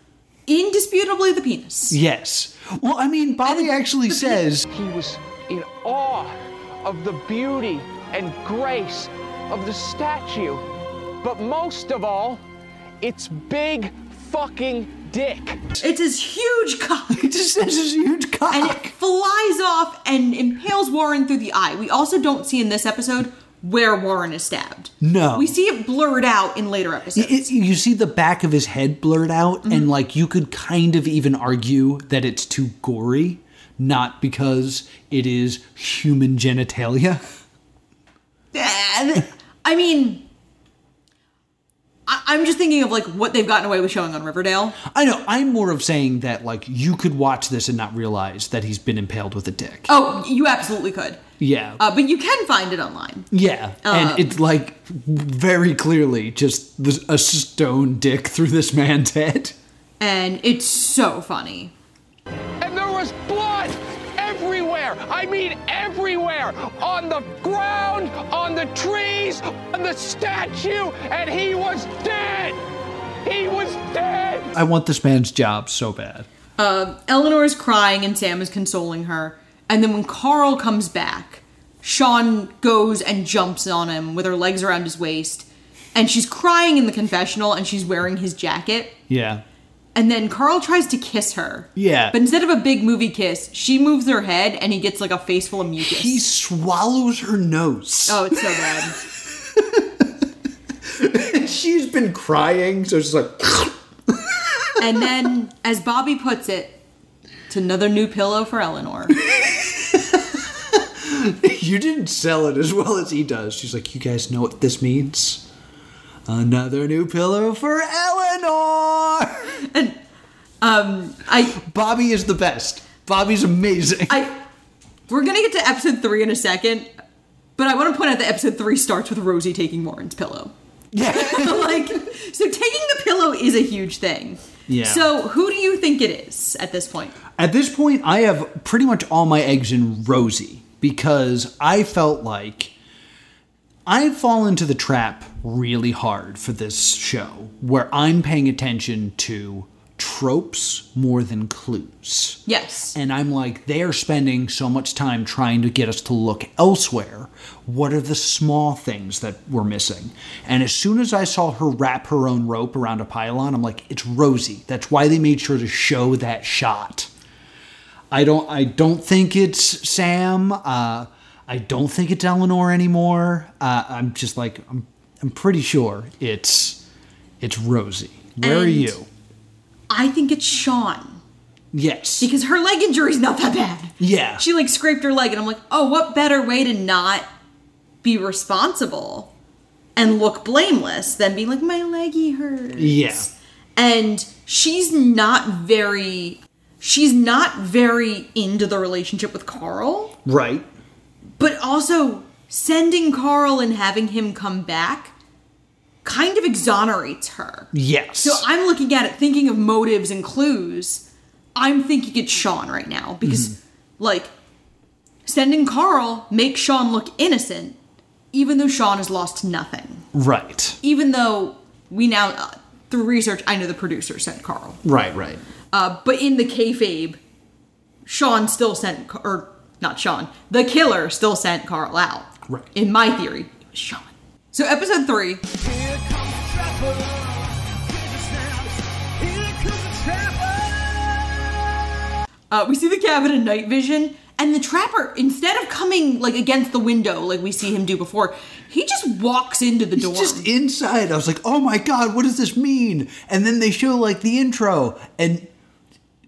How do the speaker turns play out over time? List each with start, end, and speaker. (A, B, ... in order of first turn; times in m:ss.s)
0:00.5-0:02.0 A
0:01.9-0:04.7 B
0:04.7-0:10.6 C
0:11.2-0:12.4 C
0:13.0-0:15.6 C
0:15.8-0:17.2 A
0:17.1-0:18.9 B
0:18.5-0:27.5 A
0:25.0-0:25.5 B
0:27.1-0:37.2 B
0:38.5-0:40.2 A
0:42.1-0:44.8 A
0:44.8-0:49.9 B
0:49.9-0:51.2 A
0:51.4-0:51.8 B
0:51.8-0:53.3 A
0:53.3-0:59.5 B
0:53.8-0:54.3 A
1:00.0-1:01.7 A
1:02.6-1:12.6 C
1:13.2-1:14.5 C
1:14.5-1:16.3 B
1:16.6-1:29.0 A
1:29.1-1:29.4 B
1:29.9-1:36.2 A
1:31.8-1:32.2 B
1:35.8-1:39.0 B
1:38.1-1:39.0 A
1:39.5-1:40.1 B
1:40.8-1:45.0 B
1:44.8-1:46.8 A
1:47.5-1:49.2 A
1:49.3-1:55.4 B
1:56.2-1:59.6 B
1:59.7-2:00.0 A
2:00.6-2:01.6 A
2:01.5-2:04.3 B
2:04.1-2:04.4 A
2:05.1-2:06.9 A
2:07.6-2:10.5 A
2:10.9-2:11.9 B
2:11.1-2:17.2 A
2:14.7-2:15.1 B
2:17.4-2:22.7 B
2:23.8-2:32.4 B
2:32.5-2:32.9 A
2:32.9-2:47.1 B
2:48.1-2:56.8 B
2:57.4-2:59.1 B
2:58.4-2:58.9 A
2:59.9-3:01.2 A
3:01.7-3:02.3 B
3:02.2-3:07.2 A
3:04.0-3:04.4 B
3:08.0-3:09.3 A
3:10.0-3:20.2 A
3:12.8-3:13.3 B
3:20.2-3:20.7 B
3:21.4-3:25.1 A
3:26.0-3:34.3 A
3:27.7-3:28.4 B
3:33.2-3:33.6 B
3:35.2-3:37.8 A
3:38.3-3:40.0 A
3:40.1-3:40.8 B
3:40.8-3:44.8 A
3:44.8-3:45.4 B
3:45.7-3:47.2 A
3:48.0-3:55.4 A
3:55.5-4:01.5 D
4:02.5-4:10.5 A
4:10.0-4:15.5 B